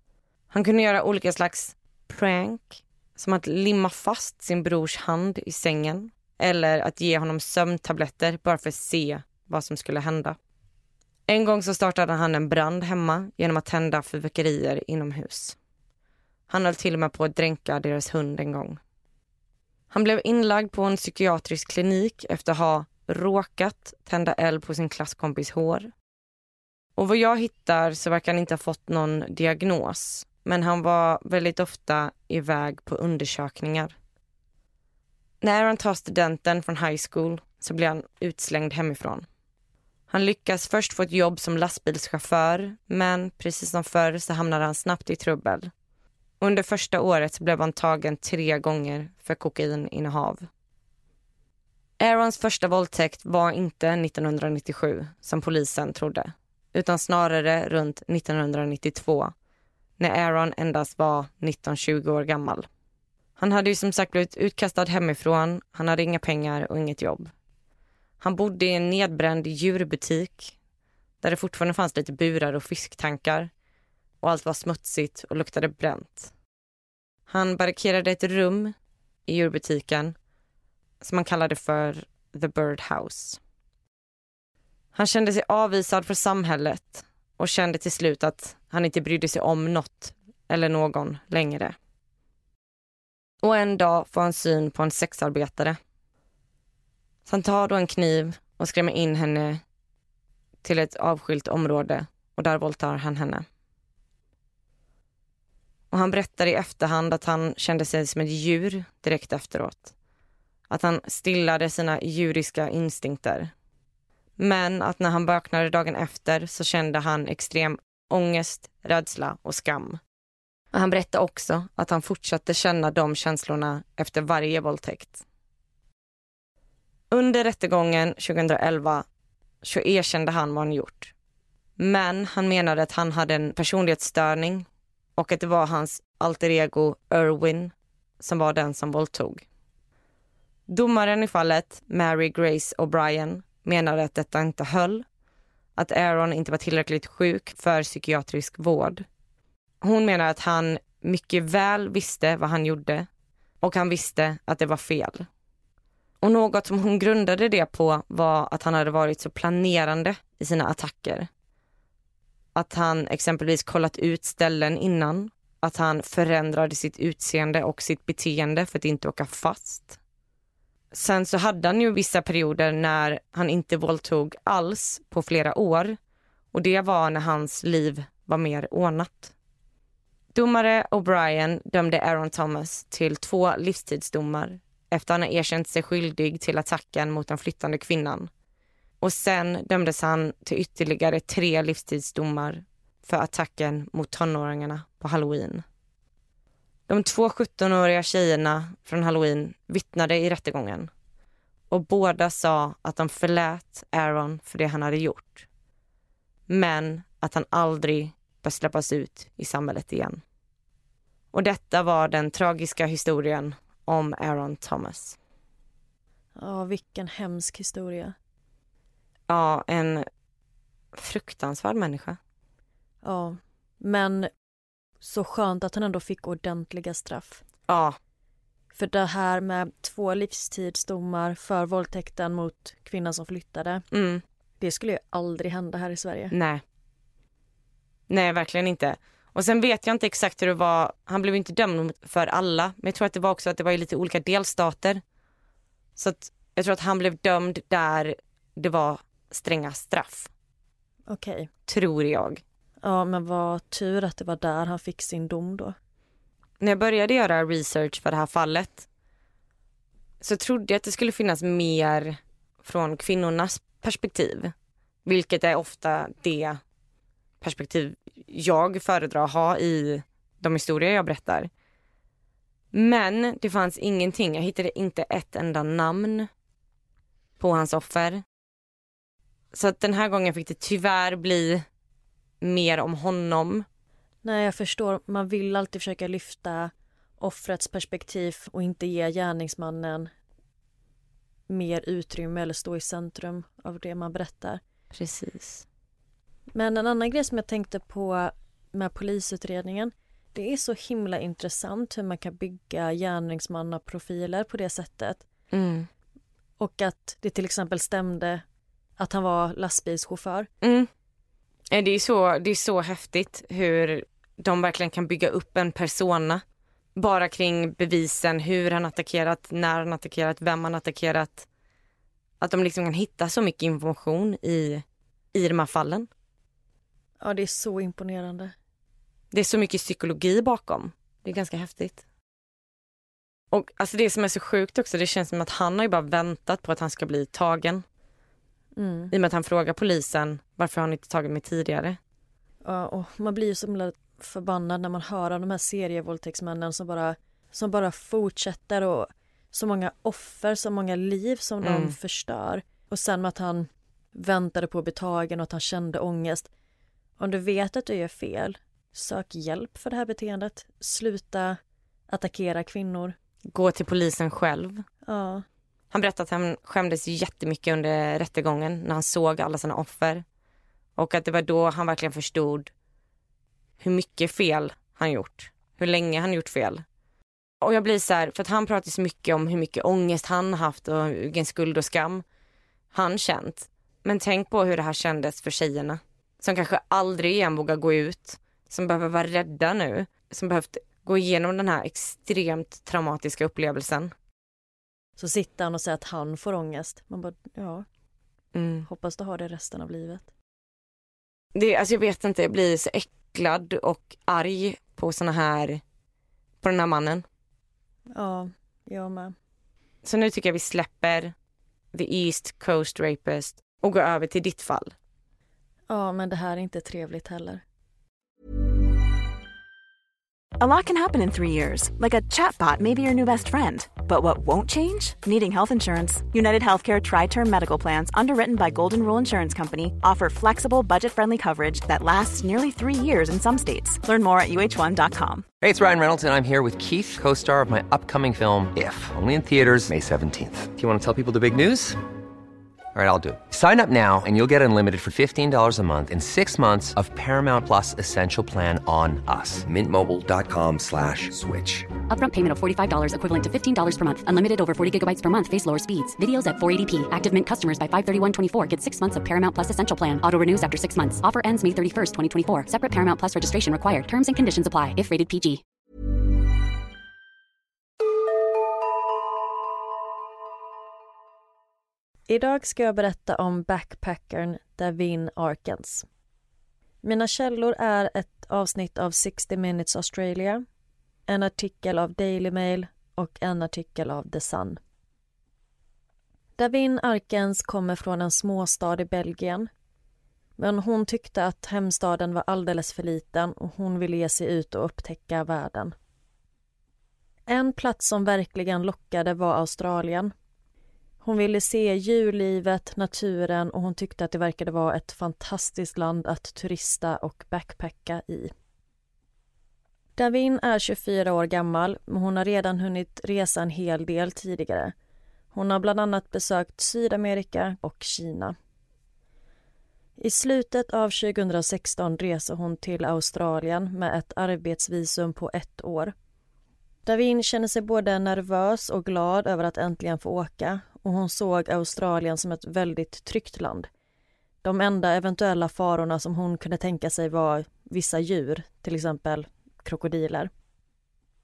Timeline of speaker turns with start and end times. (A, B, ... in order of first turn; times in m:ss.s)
0:00.5-0:10.4 A
0:11.3-0:15.6 A
0:16.5-0:18.8 A
0:19.9-0:25.9 A
0:27.0-0:33.9 A
0:35.4-0:39.2 A
0:40.1-0:45.7 A
0:46.4-0:50.4 A
0:52.0-0:59.3 A
1:00.0-1:02.7 A
1:03.4-1:07.3 A
1:08.2-1:10.5 A
1:11.2-1:13.5 A
1:14.2-1:16.3 A
1:17.3-1:18.7 A
1:19.3-1:20.1 A
1:21.0-1:23.4 A
1:24.9-1:31.7 A
1:33.4-1:35.8 A
1:37.2-1:39.6 A
1:40.6-1:43.4 A
1:45.9-1:49.9 A
1:50.7-1:53.5 A
1:54.4-2:00.0 A
2:00.7-2:05.2 A
2:07.1-2:09.0 A
2:09.6-2:11.1 A
2:11.8-2:19.4 A
2:20.7-2:25.0 A
2:25.8-2:29.0 A
2:29.8-2:33.1 A
2:33.6-2:35.3 A
2:36.2-2:41.3 A
2:42.5-2:50.0 A
2:50.9-2:56.0 A
2:56.5-2:59.3 A
3:00.3-3:08.3 A
3:09.0-3:15.6 A
3:16.9-3:20.9 A
3:21.7-3:25.5 A
3:26.5-3:30.2 A
3:31.3-3:35.2 A
3:36.4-3:38.1 B
3:39.3-3:40.0 A
3:40.9-3:42.2 A
3:43.0-3:44.3 B
3:45.0-3:47.4 B
3:47.7-3:48.0 A
3:48.7-3:53.8 B
3:53.9-3:54.2 A
3:54.6-3:56.3 B
3:56.3-3:56.6 A
3:58.1-4:05.0 A
4:06.0-4:10.3 A
4:11.1-4:11.5 B
4:11.7-4:12.4 A
4:12.8-4:15.8 B
4:16.6-4:18.9 A
4:20.2-4:24.5 A
4:25.0-4:26.6 A
4:27.4-4:31.5 A
4:32.7-4:36.3 A
4:37.4-4:38.2 A
4:39.5-4:41.6 A
4:42.4-4:43.6 A
4:44.2-4:50.1 B
4:51.5-4:54.6 B
4:54.9-4:55.6 A
4:56.5-5:05.2 B
5:05.5-5:05.9 A
5:06.6-5:08.4 B
5:09.0-5:10.5 B
5:10.6-5:10.9 A
5:11.7-5:16.4 A
5:17.0-5:21.4 A
5:22.4-5:26.1 A
5:27.2-5:28.5 B
5:29.3-5:32.0 A
5:33.5-5:37.8 A
5:38.8-5:39.1 B
5:39.1-5:42.0 A
5:42.6-5:56.5 B
5:51.6-5:51.9 A
5:57.2-6:03.2 B
6:03.5-6:04.8 A
6:05.0-6:05.4 B
6:05.9-6:10.2 A
6:11.0-6:12.7 A
6:13.8-6:16.8 A
6:17.6-6:22.2 A
6:22.9-6:34.1 A
6:35.2-6:37.8 B
6:38.5-6:38.9 A
6:38.8-6:40.3 B
6:41.5-6:45.8 A
6:46.6-6:47.2 A
6:48.1-6:49.3 B
6:50.0-6:51.3 A
6:51.9-6:54.9 A
6:55.9-6:57.6 B
7:00.6-7:15.4 C
7:15.6-7:22.0 D
7:22.9-7:31.9 D
7:32.1-7:45.6 E
7:52.3-7:56.0 B
7:57.0-8:00.6 B
8:01.3-8:04.8 B
8:06.6-8:09.7 B
8:10.6-8:15.9 B
8:17.5-8:20.3 B
8:21.2-8:28.5 B
8:30.2-8:34.9 B
8:35.5-8:38.6 B
8:40.2-8:46.1 B
8:47.0-8:53.9 B
8:54.6-9:00.5 B